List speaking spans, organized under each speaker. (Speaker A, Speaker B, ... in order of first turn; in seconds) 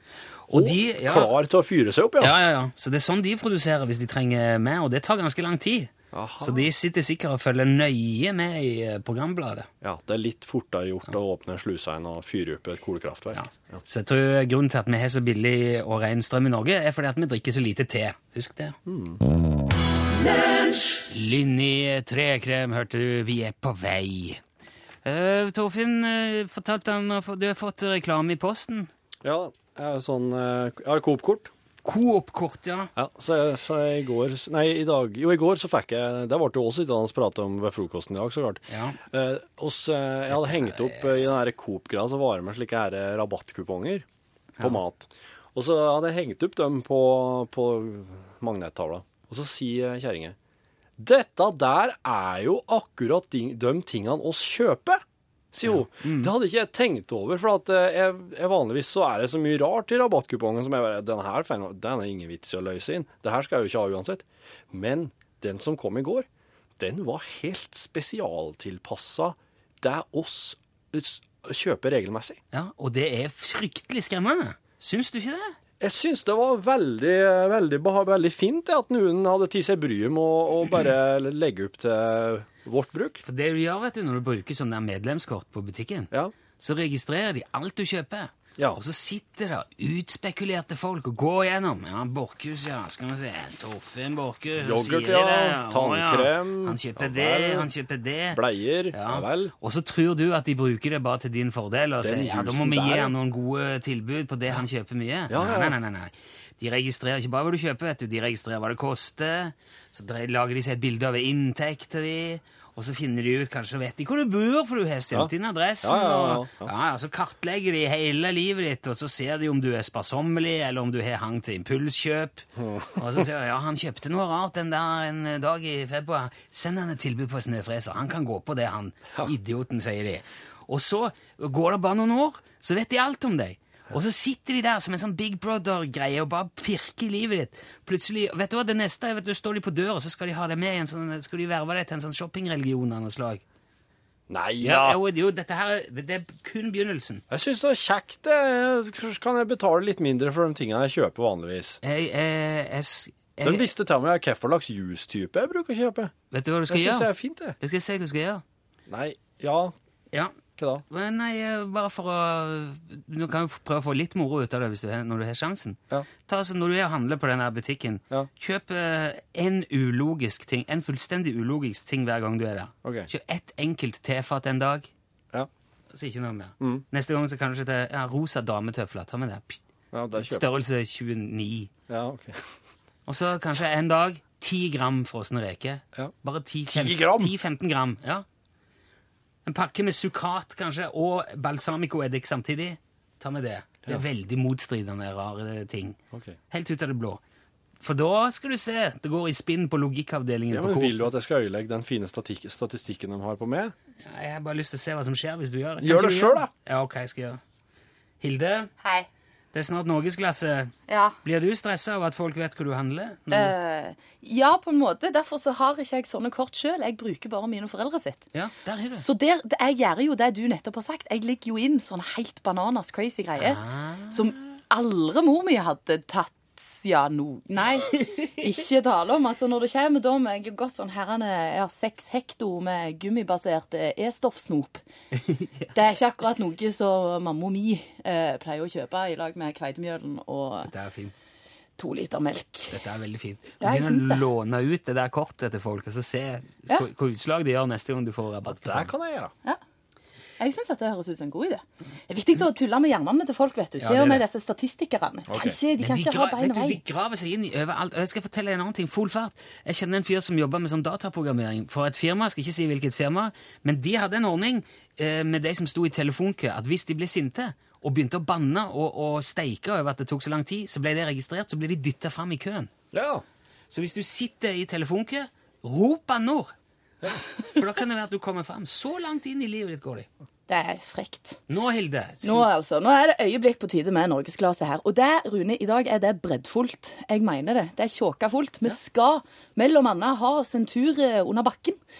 Speaker A: 0.5-1.3, 2.2-9.7, 13.3-18.8, 21.1-24.4, 25.1-28.9, 31.9-32.9, 38.7-39.0, 40.4-41.4, 55.7-56.3, 72.5-75.6, 83.2-98.4, 98.9-143.4, 144.6-147.2, 151.8-153.7, 156.3-158.4, 160.9-174.9, 175.9-179.6, 180.2-181.7, 183.1-188.2, 189.5-196.0, 196.5-197.2, 197.8-201.1, 204.0-207.4, 208.2-208.7, 209.5-213.5, 218.3-219.0, 223.4-224.2, 235.4-235.7, 240.6-241.1, 242.7-248.9, 253.8-254.2, 255.8-272.7, 273.7-276.5, 277.4-280.1, 281.5-282.5
Speaker B: 0.5-2.3, 6.1-6.7, 9.8-13.8, 18.9-19.2, 29.2-31.5, 33.0-44.1, 44.6-50.4, 51.0-55.0, 55.5-66.3, 66.8-72.4, 75.8-83.2, 94.6-97.7, 98.3-99.5, 102.0-103.1, 105.3-105.8, 115.8-116.7, 122.6-123.0, 144.3-145.0, 147.3-151.8, 153.4-156.1, 156.7-157.6, 158.9-159.8, 160.6-160.8, 172.8-173.1, 179.9-180.5, 181.9-182.5, 186.7-187.3, 196.1-196.4, 200.5-203.7, 205.8-206.5, 248.5-249.3, 255.3-255.6, 272.9-273.2
Speaker C: 210.9-211.2, 213.3-218.2, 218.8-234.8, 235.7-240.7, 241.8-242.8, 243.6-244.2, 250.4-256.8, 280.5-281.4, 282.2-291.8